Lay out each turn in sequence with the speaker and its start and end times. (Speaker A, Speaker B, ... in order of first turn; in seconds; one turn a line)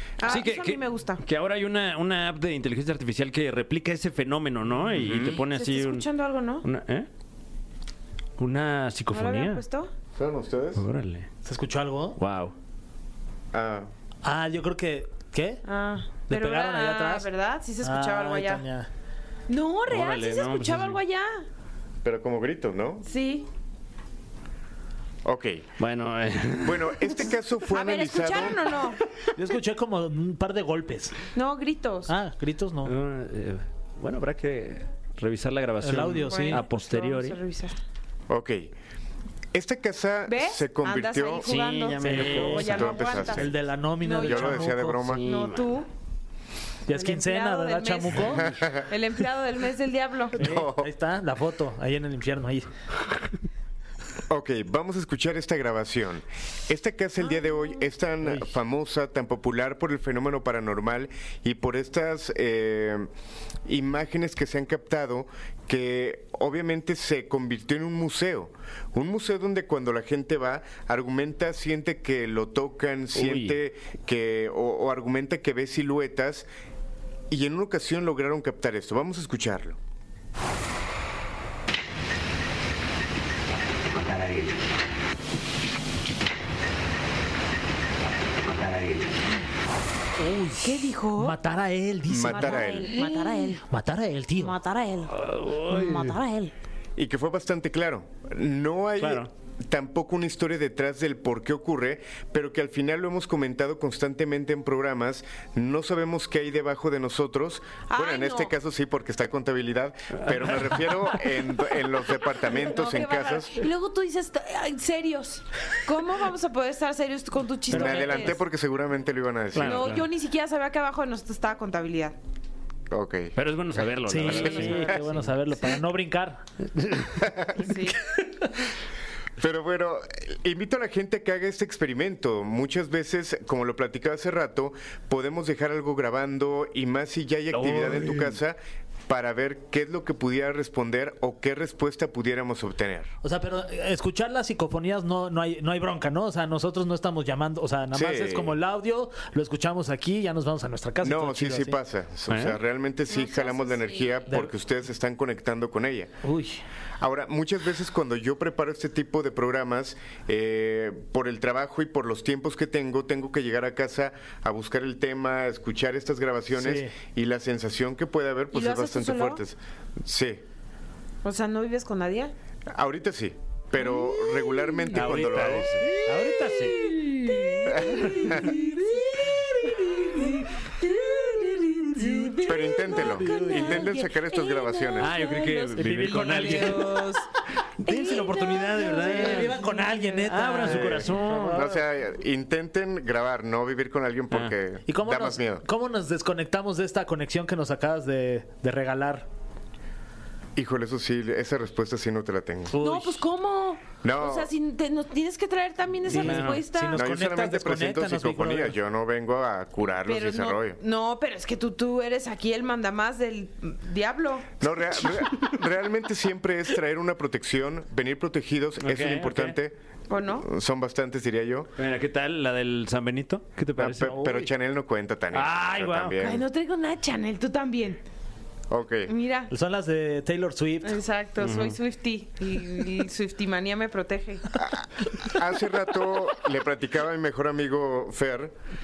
Speaker A: 0.2-1.2
Speaker B: 0.2-6.0
Speaker C: 4.9-5.4
Speaker A: 5.4-6.6
Speaker B: 6.6-7.1
Speaker B: 8.4-9.6
Speaker A: 9.1-9.9
Speaker C: 10.1-10.8
Speaker B: 10.8-11.3
Speaker D: 11.4-12.2
Speaker B: 12.2-12.5
Speaker C: 13.5-13.9
Speaker D: 14.2-15.6
Speaker A: 15.6-18.6
Speaker D: 16.3-17.3
Speaker D: 17.8-18.9
Speaker A: 19.5-21.4
Speaker B: 19.9-21.0
Speaker C: 22.0-23.0
Speaker A: 23.0-23.5
Speaker C: 25.2-25.7
Speaker B: 25.8-27.2
Speaker C: 26.6-28.6
Speaker A: 27.7-29.0
Speaker D: 29.3-31.1
Speaker A: 31.3-32.1
Speaker D: 32.1-32.9
Speaker B: 32.8-37.4
Speaker D: 35.8-36.6
Speaker A: 36.2-37.8
Speaker C: 38.3-38.7
Speaker C: 39.5-41.6
Speaker A: 40.3-45.9
Speaker B: 41.4-42.9
Speaker D: 42.0-45.1
Speaker C: 42.6-43.5
Speaker C: 44.2-45.2
Speaker B: 44.9-45.8
Speaker D: 46.9-48.5
Speaker A: 46.9-50.5
Speaker C: 48.5-48.8
Speaker D: 50.4-52.7
Speaker C: 50.4-50.9
Speaker C: 54.3-63.1
Speaker C: 63.6-76.5
Speaker B: 73.1-73.6
Speaker C: 77.3-79.8
Speaker B: 84.1-84.4
Speaker B: 88.5-89.0
Speaker B: 90.2-90.7
Speaker A: 90.6-91.3
Speaker D: 91.2-94.6
Speaker C: 92.1-92.9
Speaker A: 92.3-93.6
Speaker A: 94.4-95.1
Speaker B: 95.1-96.1
Speaker A: 95.7-96.5
Speaker C: 97.0-113.5
Speaker B: 99.0-99.3
Speaker A: 107.9-108.5
Speaker B: 110.3-111.1
Speaker A: 112.6-118.4
Speaker C: 117.7-119.9
Speaker D: 117.7-118.2
Speaker B: 119.5-120.0
Speaker A: 119.6-122.2
Speaker C: 122.9-123.3
Speaker B: 123.3-125.2
Speaker D: 124.0-126.4
Speaker C: 124.3-125.0
Speaker B: 126.8-127.2
Speaker C: 127.2-127.5
Speaker A: 127.5-128.0
Speaker C: 129.4-143.1
Speaker B: 137.5-138.4
Speaker D: 143.2-151.8
Speaker C: 147.9-148.6
Speaker C: 151.0-156.1
Speaker B: 152.3-152.6
Speaker A: 153.1-154.3
Speaker D: 156.2-156.6
Speaker C: 157.0-170.4
Speaker D: 166.5-166.9
Speaker A: 168.5-169.4
Speaker A: 171.2-172.3
Speaker C: 172.7-175.7
Speaker A: 173.9-174.7
Speaker B: 174.9-177.3
Speaker D: 175.8-177.1
Speaker A: 177.2-187.2
Speaker C: 177.7-178.0
Speaker D: 178.1-183.9
Speaker C: 182.4-185.1
Speaker B: 185.0-187.0
Speaker D: 185.8-186.9
Speaker B: 187.8-189.6
Speaker A: 187.8-190.5
Speaker D: 188.7-191.8
Speaker B: 190.3-191.6
Speaker C: 190.6-195.6
Speaker B: 194.3-194.6
Speaker D: 194.9-199.3
Speaker C: 200.6-202.8
Speaker D: 202.7-203.2
Speaker A: 202.8-207.0
Speaker C: 204.0-204.5
Speaker D: 206.1-208.8
Speaker B: 206.1-206.6
Speaker C: 206.9-210.8
Speaker A: 210.0-214.5
Speaker C: 214.6-219.8
Speaker B: 218.8-219.6
Speaker A: 220.1-220.4
Speaker C: 220.4-221.7
Speaker B: 221.8-224.3
Speaker C: 223.8-226.4
Speaker D: 224.0-224.4
Speaker B: 225.3-226.2
Speaker A: 226.1-228.0
Speaker C: 228.7-229.1
Speaker A: 229.1-229.5
Speaker D: 229.5-231.0
Speaker A: 230.8-234.5
Speaker B: 231.4-231.7
Speaker C: 234.6-238.5